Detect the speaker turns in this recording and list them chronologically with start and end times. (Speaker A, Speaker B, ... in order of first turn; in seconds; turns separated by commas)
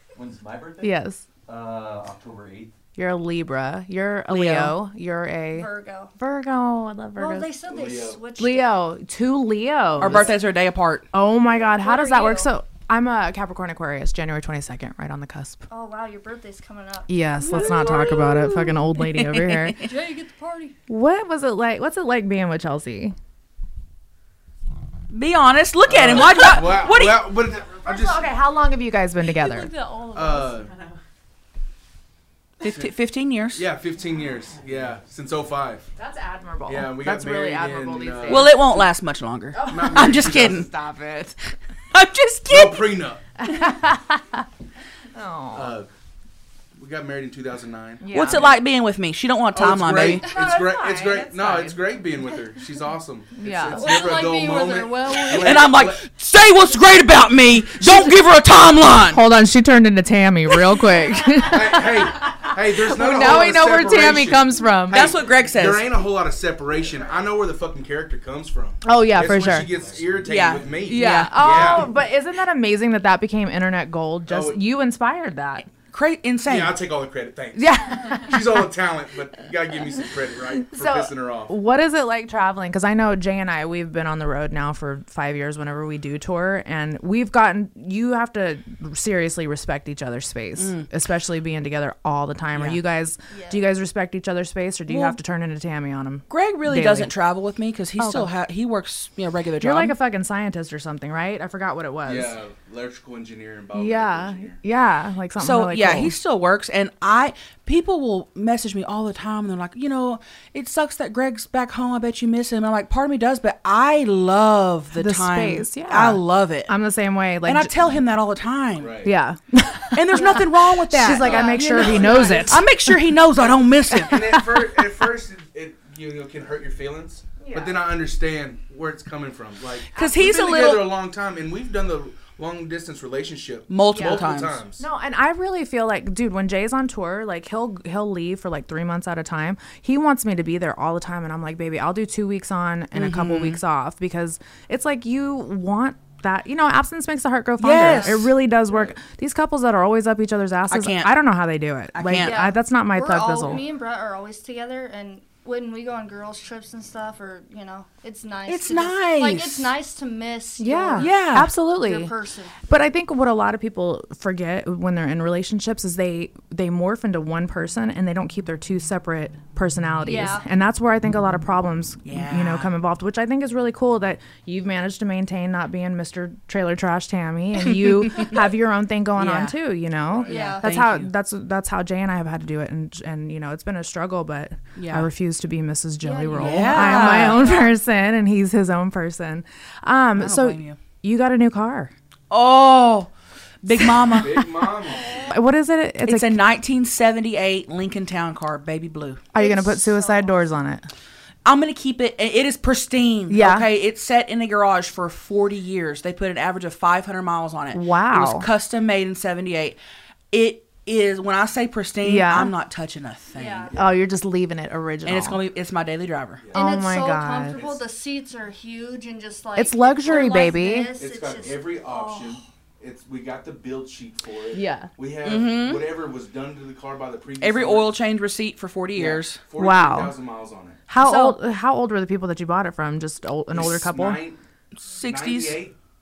Speaker A: 0.1-2.7, Speaker B: 0.8-1.2, Speaker B: 3.0-7.5, Speaker C: 4.3-4.8, Speaker D: 5.5-6.1, Speaker D: 7.2-8.8, Speaker E: 7.7-8.2, Speaker B: 8.4-10.4, Speaker C: 10.0-11.1, Speaker E: 10.0-10.3, Speaker B: 11.1-15.6, Speaker D: 11.6-12.5, Speaker D: 15.7-18.0, Speaker B: 17.1-19.8, Speaker C: 17.5-19.9, Speaker D: 19.8-20.8, Speaker B: 20.9-23.2, Speaker C: 25.1-27.4, Speaker E: 25.9-28.3, Speaker B: 27.8-29.7, Speaker D: 29.4-30.5, Speaker E: 30.1-30.7, Speaker B: 30.7-30.9, Speaker C: 32.6-33.7, Speaker E: 32.6-32.9, Speaker E: 33.5-35.9, Speaker B: 36.0-38.6, Speaker E: 36.7-38.6, Speaker C: 38.2-40.7, Speaker B: 39.5-41.4, Speaker E: 39.6-40.6, Speaker C: 41.9-43.0, Speaker E: 42.5-43.2, Speaker B: 43.4-44.5, Speaker B: 45.1-45.8, Speaker E: 45.5-45.9, Speaker E: 46.8-48.1, Speaker B: 48.0-48.6, Speaker C: 48.1-50.3, Speaker E: 49.5-56.0, Speaker B: 50.3-51.8, Speaker D: 50.4-50.6, Speaker B: 53.4-54.0, Speaker D: 53.7-55.8, Speaker C: 55.3-59.2, Speaker B: 59.1-65.1, Speaker E: 61.4-71.9, Speaker C: 64.9-65.9, Speaker B: 68.8-69.7, Speaker A: 69.5-70.8, Speaker C: 70.2-71.8, Speaker B: 70.8-75.7, Speaker E: 74.3-74.6, Speaker C: 75.9-76.8, Speaker E: 76.5-81.6, Speaker B: 77.5-78.7, Speaker B: 80.5-97.1, Speaker C: 90.6-90.9, Speaker C: 92.5-92.8, Speaker D: 93.3-93.7, Speaker C: 94.9-95.2, Speaker C: 96.3-100.0, Speaker B: 98.0-98.3, Speaker B: 99.6-102.4, Speaker E: 102.0-104.6, Speaker B: 103.7-106.2, Speaker C: 105.4-116.7, Speaker B: 115.0-117.8, Speaker C: 117.4-119.0, Speaker E: 118.8-119.1, Speaker B: 119.0-123.0, Speaker C: 119.9-124.4, Speaker D: 121.2-122.5, Speaker E: 121.2-122.5, Speaker B: 123.9-124.7, Speaker E: 124.1-134.8, Speaker B: 127.4-127.9, Speaker C: 129.9-131.0, Speaker C: 133.7-134.6, Speaker B: 133.9-134.2, Speaker B: 134.8-153.6, Speaker C: 142.9-143.6, Speaker C: 147.6-148.4, Speaker D: 147.8-148.2, Speaker C: 150.7-151.2, Speaker C: 151.9-152.5, Speaker D: 152.2-162.7, Speaker C: 158.5-159.7, Speaker B: 160.6-162.1, Speaker C: 161.0-161.6, Speaker B: 162.7-191.9, Speaker D: 170.1-170.4, Speaker C: 172.1-172.7, Speaker C: 179.2-179.6, Speaker E: 180.1-180.6, Speaker D: 180.3-180.8, Speaker C: 180.3-181.1, Speaker C: 184.8-185.1, Speaker D: 186.0-187.7, Speaker C: 186.3-187.6, Speaker C: 190.2-190.8, Speaker C: 192.3-193.1, Speaker C: 193.6-194.6, Speaker E: 194.1-195.2, Speaker D: 194.9-195.3, Speaker B: 195.3-196.4, Speaker C: 196.1-199.2, Speaker B: 199.3-200.8, Speaker D: 199.3-200.4, Speaker C: 201.4-209.8, Speaker B: 203.3-203.7, Speaker B: 207.7-208.5, Speaker C: 210.3-213.8, Speaker B: 212.0-212.5, Speaker D: 213.3-213.8, Speaker B: 213.8-215.4, Speaker C: 215.1-216.5, Speaker B: 216.5-217.6, Speaker D: 216.5-222.4, Speaker E: 217.5-217.8, Speaker B: 219.6-220.9, Speaker E: 220.9-228.0, Speaker B: 224.5-224.9, Speaker C: 225.2-225.9, Speaker C: 227.4-229.4, Speaker E: 228.9-230.8, Speaker B: 229.6-230.2, Speaker B: 230.9-234.2, Speaker C: 231.0-231.4, Speaker E: 233.5-234.4, Speaker C: 234.8-235.6, Speaker E: 235.0-235.8